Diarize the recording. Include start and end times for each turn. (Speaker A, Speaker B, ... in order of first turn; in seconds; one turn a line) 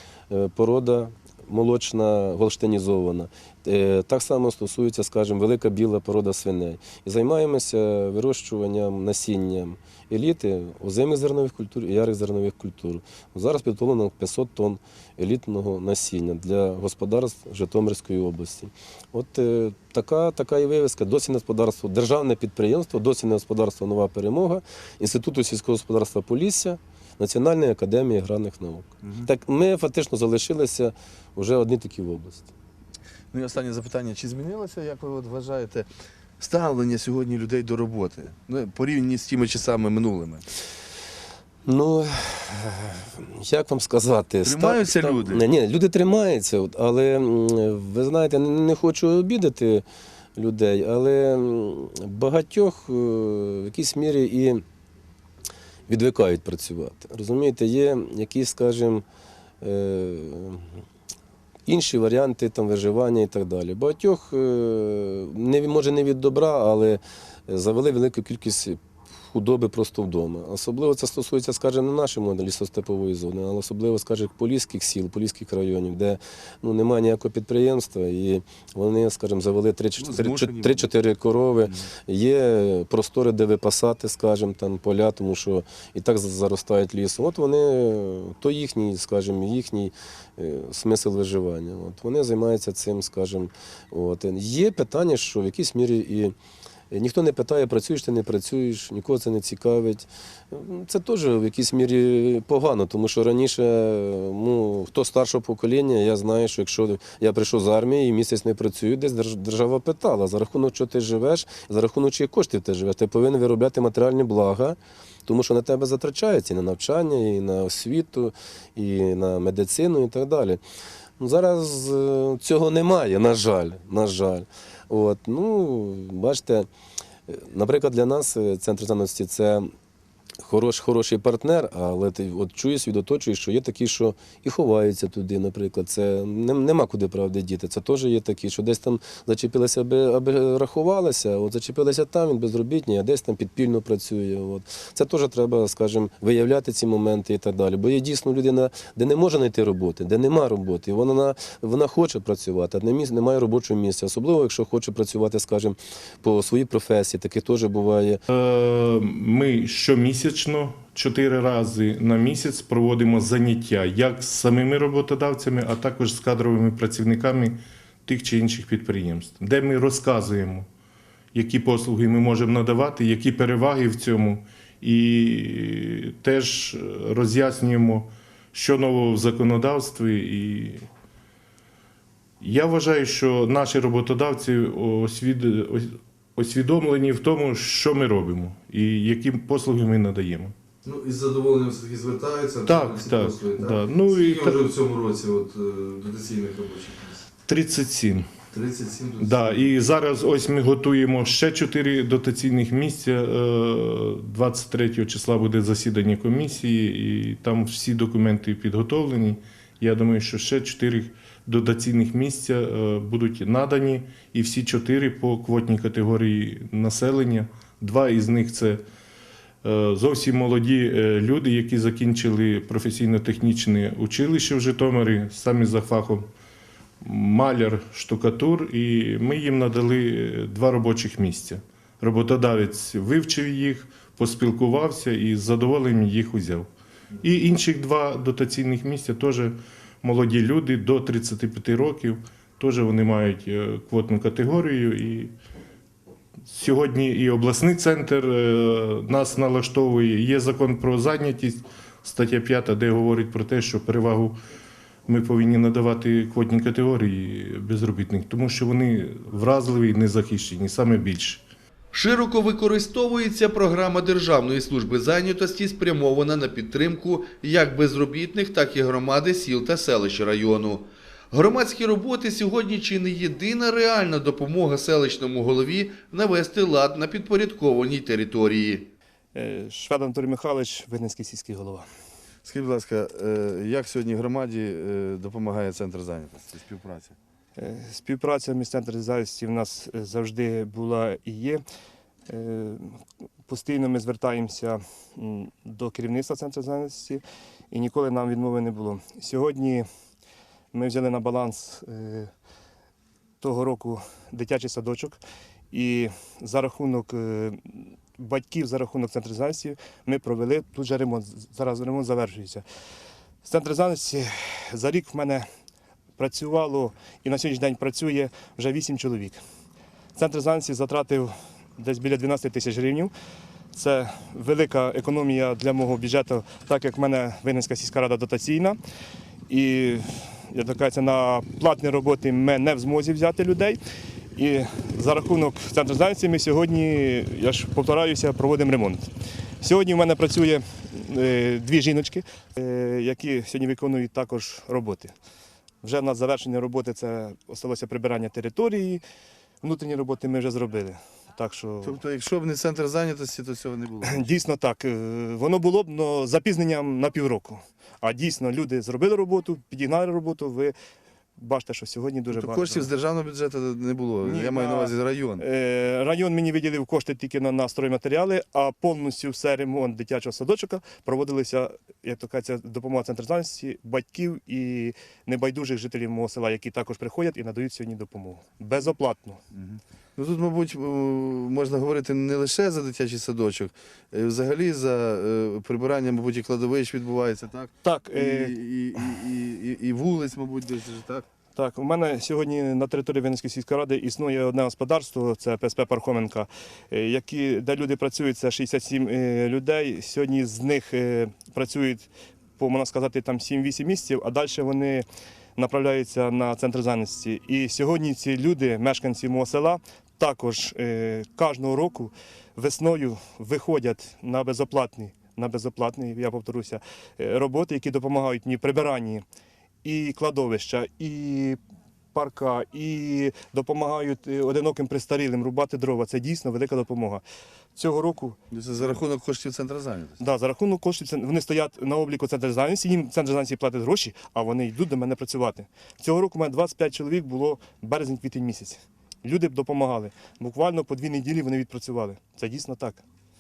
Speaker A: 0.3-32.5
Speaker B: 29.0-29.3
Speaker B: 33.3-35.9
Speaker B: 36.4-40.4
Speaker A: 41.7-49.9
Speaker B: 44.5-45.4
Speaker A: 50.4-54.6
Speaker A: 55.9-59.0
Speaker A: 59.6-60.7
Speaker A: 61.7-96.3
Speaker B: 80.0-80.9
Speaker A: 96.9-120.6
Speaker A: 121.2-126.7
Speaker A: 127.3-129.7
Speaker A: 130.4-158.2
Speaker C: 158.3-170.7
Speaker C: 171.3-180.9
Speaker C: 182.4-190.6
Speaker B: 190.8-197.2
Speaker C: 192.7-194.6
Speaker C: 197.5-198.3
Speaker B: 198.5-199.7
Speaker C: 199.2-218.8
Speaker C: 219.6-226.3
Speaker C: 227.0-236.7
Speaker C: 237.2-245.3
Speaker C: 246.5-254.4
Speaker C: 255.1-261.4
Speaker D: 261.9-278.9
Speaker E: 279.3-281.9
Speaker B: 282.4-287.2
Speaker E: 287.6-291.6
Speaker E: 292.3-299.9
Speaker E: 300.7-302.3
Speaker E: 303.4-305.2
Speaker E: 305.7-312.6
Speaker E: 313.4-315.5
Speaker E: 316.2-319.4
Speaker E: 320.1-323.1
Speaker E: 323.7-328.8
Speaker E: 329.5-333.8
Speaker E: 334.4-339.1
Speaker E: 339.6-345.1
Speaker E: 345.8-349.0
Speaker E: 349.6-352.0
Speaker B: 351.8-354.3
Speaker E: 354.0-360.7
Speaker E: 361.4-362.9
Speaker B: 362.3-365.4
Speaker E: 364.2-379.4
Speaker B: 379.6-391.3
Speaker E: 387.8-388.5
Speaker E: 391.6-402.1
Speaker E: 402.6-405.1
Speaker E: 405.6-419.2
Speaker E: 419.8-421.6
Speaker E: 422.1-427.2
Speaker E: 427.8-428.4
Speaker B: 428.5-430.2
Speaker E: 430.2-443.0